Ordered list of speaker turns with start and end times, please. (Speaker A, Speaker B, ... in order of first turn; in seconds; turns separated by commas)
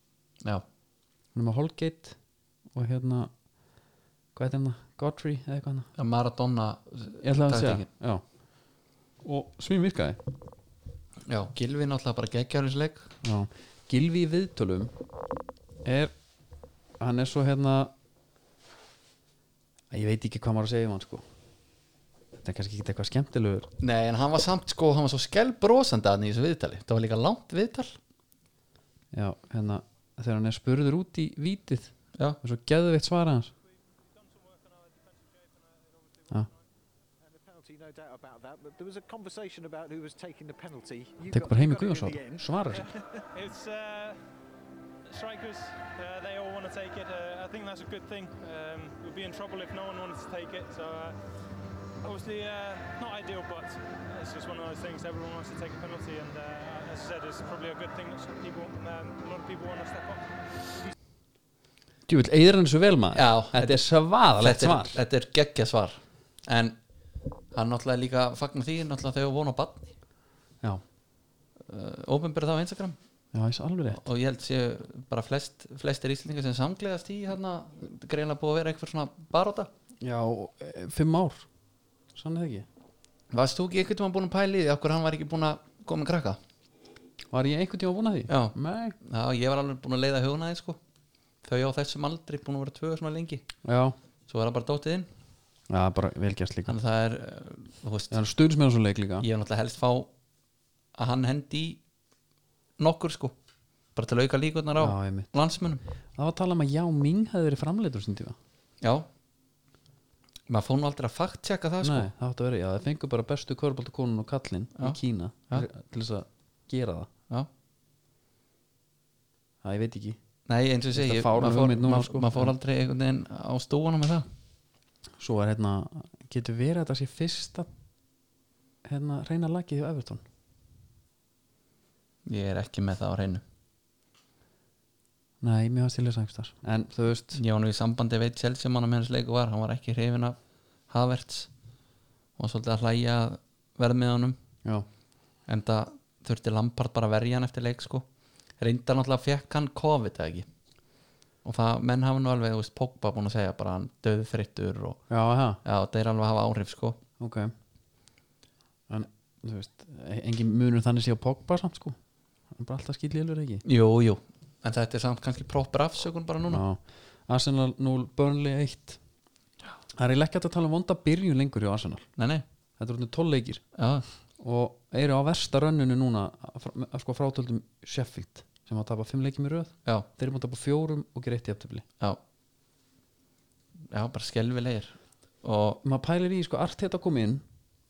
Speaker A: 1.3-2.2, Speaker A: 2.7-3.3, Speaker A: 4.3-5.9, Speaker B: 6.0-7.9, Speaker A: 7.2-8.2, Speaker A: 9.2-10.2, Speaker B: 11.3-13.1, Speaker A: 13.2-14.9, Speaker A: 15.8-16.1, Speaker A: 17.0-17.9, Speaker A: 19.9-21.2, Speaker A: 22.4-23.7, Speaker B: 23.8-28.0, Speaker A: 29.1-33.5, Speaker C: 34.1-36.5, Speaker D: 37.2-43.0, Speaker A: 41.3-42.9, Speaker C: 42.7-44.2, Speaker C: 45.1-51.2, Speaker C: 52.0-60.4, Speaker A: 62.1-65.0, Speaker B: 63.1-66.8, Speaker B: 67.5-69.9, Speaker B: 71.7-73.0, Speaker A: 73.3-74.0, Speaker B: 73.9-79.7, Speaker A: 80.0-81.5, Speaker A: 82.1-82.7, Speaker B: 83.3-86.4, Speaker A: 87.3-89.0, Speaker B: 88.3-90.8, Speaker B: 91.4-93.4, Speaker A: 93.6-94.0, Speaker B: 94.3-95.1, Speaker A: 95.7-96.8, Speaker B: 96.7-98.2, Speaker A: 98.1-99.2, Speaker B: 99.2-100.1, Speaker B: 100.9-101.8, Speaker B: 102.8-103.3, Speaker B: 104.0-105.8, Speaker A: 104.8-105.3, Speaker A: 106.1-108.4, Speaker B: 108.8-109.1, Speaker B: 110.5-112.1, Speaker A: 111.8-117.1, Speaker A: 119.6-120.2, Speaker B: 120.5-124.3, Speaker A: 120.9-122.5, Speaker A: 125.2-127.7, Speaker A: 128.8-130.2, Speaker B: 132.2-133.4, Speaker A: 135.4-137.4, Speaker B: 137.3-140.4, Speaker B: 140.9-141.5, Speaker B: 142.4-144.4, Speaker B: 145.5-148.0, Speaker B: 148.6-150.5, Speaker B: 151.4-155.0, Speaker A: 155.1-155.6, Speaker B: 155.6-157.0, Speaker A: 157.2-157.5, Speaker A: 158.9-161.9, Speaker A: 162.5-163.6, Speaker B: 163.6-166.6, Speaker A: 166.5-169.0, Speaker A: 169.9-172.1, Speaker B: 172.2-172.4, Speaker A: 172.8-173.6, Speaker B: 173.8-174.0, Speaker A: 174.4-181.8, Speaker B: 183.9-185.8, Speaker A: 185.8-187.4